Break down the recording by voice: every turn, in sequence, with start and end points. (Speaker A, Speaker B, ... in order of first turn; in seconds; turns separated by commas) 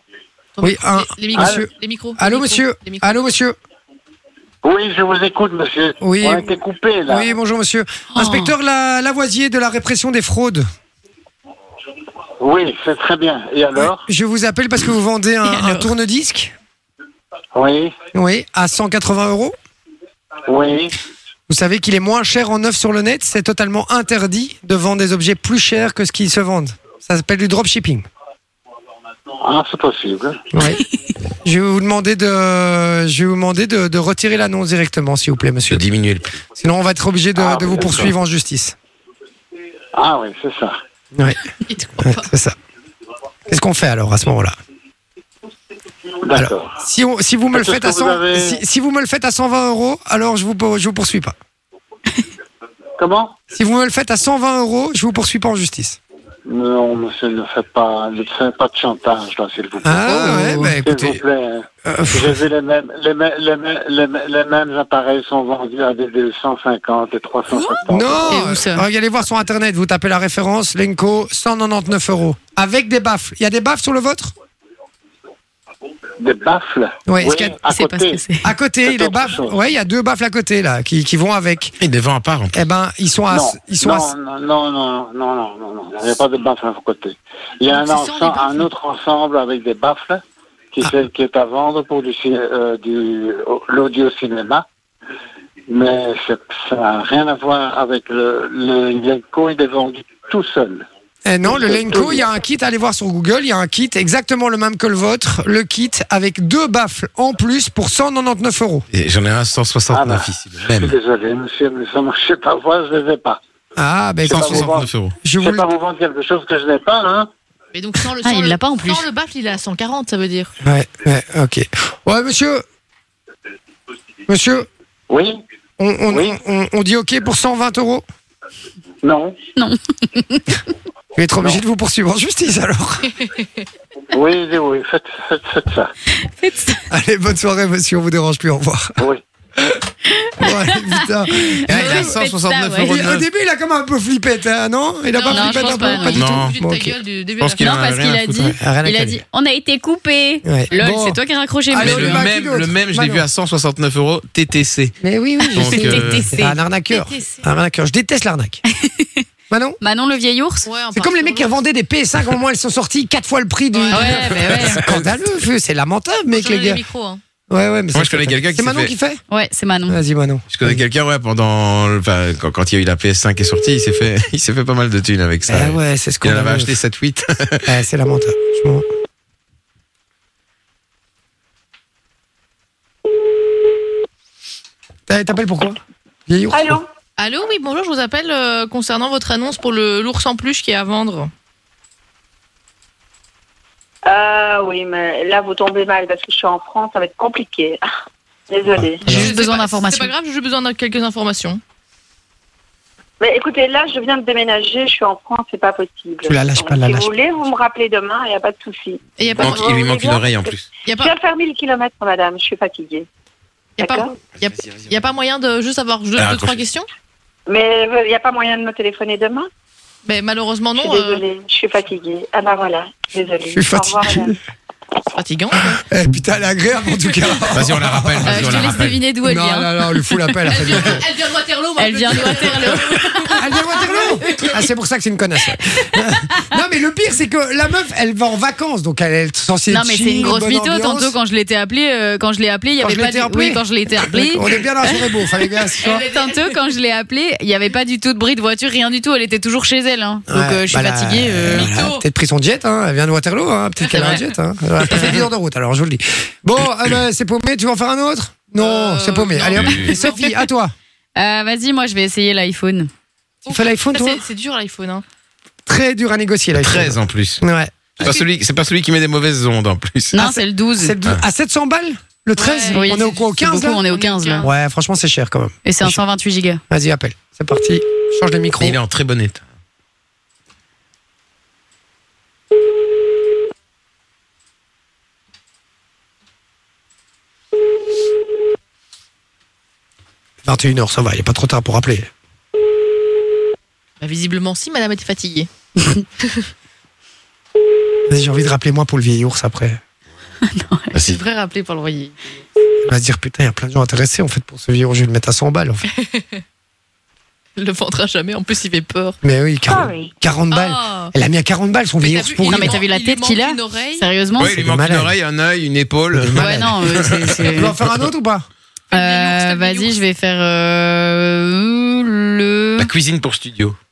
Speaker A: 0.6-3.2, Speaker B: 0.6-3.5, Speaker C: 1.4-1.6, Speaker C: 4.6-7.4, Speaker B: 6.0-6.5, Speaker B: 7.1-10.6, Speaker A: 8.1-8.5, Speaker C: 12.4-14.1, Speaker B: 13.9-16.5, Speaker A: 15.5-15.9, Speaker C: 17.5-17.9, Speaker B: 18.1-19.5, Speaker C: 20.5-20.9, Speaker B: 21.5-28.1, Speaker C: 29.4-30.5, Speaker B: 30.5-30.8, Speaker B: 31.4-35.9, Speaker D: 35.7-36.4, Speaker B: 36.6-38.8, Speaker C: 37.4-38.1, Speaker C: 39.9-40.8, Speaker B: 41.1-41.4, Speaker A: 41.7-42.3, Speaker B: 42.0-42.5, Speaker B: 43.5-44.5, Speaker C: 46.2-46.7, Speaker B: 46.3-51.3, Speaker C: 47.5-48.6, Speaker C: 53.0-53.4, Speaker B: 53.5-56.0, Speaker C: 56.5-68.4, Speaker B: 59.8-61.2, Speaker E: 60.3-60.7, Speaker B: 61.8-62.4, Speaker A: 67.5-67.8, Speaker B: 67.9-74.3, Speaker E: 68.2-68.8, Speaker C: 76.2-78.2, Speaker B: 77.1-77.6, Speaker E: 77.7-78.5, Speaker B: 78.4-81.7, Speaker C: 78.8-79.7, Speaker D: 81.8-82.6, Speaker B: 82.5-84.1, Speaker C: 83.3-90.2, Speaker A: 87.7-88.7, Speaker C: 90.7-94.6, Speaker C: 95.7-100.8, Speaker B: 101.2-108.8, Speaker C: 101.4-102.2, Speaker D: 108.9-110.9, Speaker C: 109.9-113.4, Speaker B: 113.8-115.6, Speaker C: 114.2-117.3, Speaker D: 114.3-115.1, Speaker A: 117.7-120.5, Speaker E: 118.2-119.0, Speaker B: 120.6-122.6, Speaker B: 124.3-124.7, Speaker C: 125.1-125.4, Speaker B: 125.8-128.0, Speaker C: 126.1-126.3, Speaker C: 129.0-129.4, Speaker E: 129.6-130.6, Speaker B: 131.2-133.1, Speaker C: 134.1-135.9, Speaker E: 136.4-136.8, Speaker B: 136.9-139.0, Speaker E: 140.1-142.9, Speaker B: 140.4-142.1, Speaker D: 141.7-143.2, Speaker B: 142.8-147.0, Speaker A: 145.1-147.7, Speaker E: 145.3-146.2, Speaker D: 146.1-146.5, Speaker D: 147.4-148.5, Speaker E: 147.6-152.3, Speaker B: 148.6-149.2, Speaker B: 150.4-151.2, Speaker B: 151.7-153.2, Speaker D: 151.8-155.0, Speaker B: 155.0-158.6, Speaker E: 155.5-156.6, Speaker D: 155.5-156.3, Speaker A: 156.9-157.4, Speaker E: 158.8-159.2, Speaker B: 159.5-159.8, Speaker E: 159.8-160.7, Speaker A: 160.7-161.5, Speaker B: 160.9-166.8, Speaker A: 163.7-164.5, Speaker E: 163.9-164.9, Speaker D: 164.5-165.2, Speaker A: 166.3-167.2, Speaker B: 167.5-169.2, Speaker D: 167.9-168.9, Speaker E: 169.3-170.0, Speaker B: 169.9-170.8, Speaker D: 170.5-177.7, Speaker B: 175.5-176.8, Speaker B: 177.7-178.8, Speaker B: 185.1-185.8, Speaker B: 186.3-186.8, Speaker F: 186.5-186.8, Speaker A: 187.2-191.3, Speaker F: 194.0-197.8, Speaker F: 198.5-199.1, Speaker B: 198.7-199.3, Speaker A: 199.1-201.6, Speaker E: 199.1-200.1, Speaker F: 203.2-213.1, Speaker B: 206.2-207.1, Speaker A: 209.2-209.7, Speaker D: 209.4-210.7, Speaker A: 210.8-211.1, Speaker A: 213.8-216.9, Speaker F: 213.8-214.1, Speaker D: 214.6-214.9, Speaker D: 216.2-216.6, Speaker F: 217.5-219.5, Speaker A: 220.0-221.2, Speaker F: 220.7-224.3, Speaker B: 223.5-224.4, Speaker A: 225.1-225.8, Speaker B: 225.8-228.7, Speaker D: 227.5-229.0, Speaker E: 228.2-230.3, Speaker B: 229.2-231.0, Speaker A: 230.5-234.6, Speaker E: 231.8-232.9, Speaker B: 233.3-241.2, Speaker E: 239.7-251.7, Speaker B: 242.8-246.0, Speaker A: 245.8-246.6, Speaker B: 250.3-260.7, Speaker A: 251.5-252.0, Speaker A: 253.8-254.3, Speaker A: 258.6-260.4, Speaker D: 259.5-259.9, Speaker E: 261.1-262.9, Speaker A: 263.4-265.0, Speaker B: 263.5-264.2, Speaker B: 265.6-267.7, Speaker D: 266.5-267.4, Speaker A: 268.0-268.3, Speaker D: 268.0-270.2, Speaker E: 270.1-270.9, Speaker B: 270.1-273.8, Speaker A: 272.4-274.5, Speaker E: 272.7-274.5, Speaker B: 274.4-276.0, Speaker E: 275.6-276.6, Speaker B: 276.7-278.8, Speaker D: 278.6-279.4, Speaker B: 290.4-292.1, Speaker A: 294.0-295.5, Speaker A: 296.2-296.5, Speaker B: 298.1-299.8, Speaker E: 300.5-300.9, Speaker D: 300.9-301.2, Speaker A: 300.9-302.4, Speaker B: 302.9-305.8, Speaker A: 305.9-306.4, Speaker A: 307.6-309.2, Speaker B: 309.2-312.8, Speaker F: 309.7-310.1, Speaker A: 310.5-311.1, Speaker A: 312.0-314.0, Speaker E: 312.5-314.6, Speaker D: 314.4-318.0, Speaker B: 314.4-315.1, Speaker B: 316.1-316.8, Speaker E: 316.4-317.7, Speaker B: 317.5-318.5, Speaker A: 318.9-320.0, Speaker E: 318.9-322.9, Speaker D: 322.8-323.8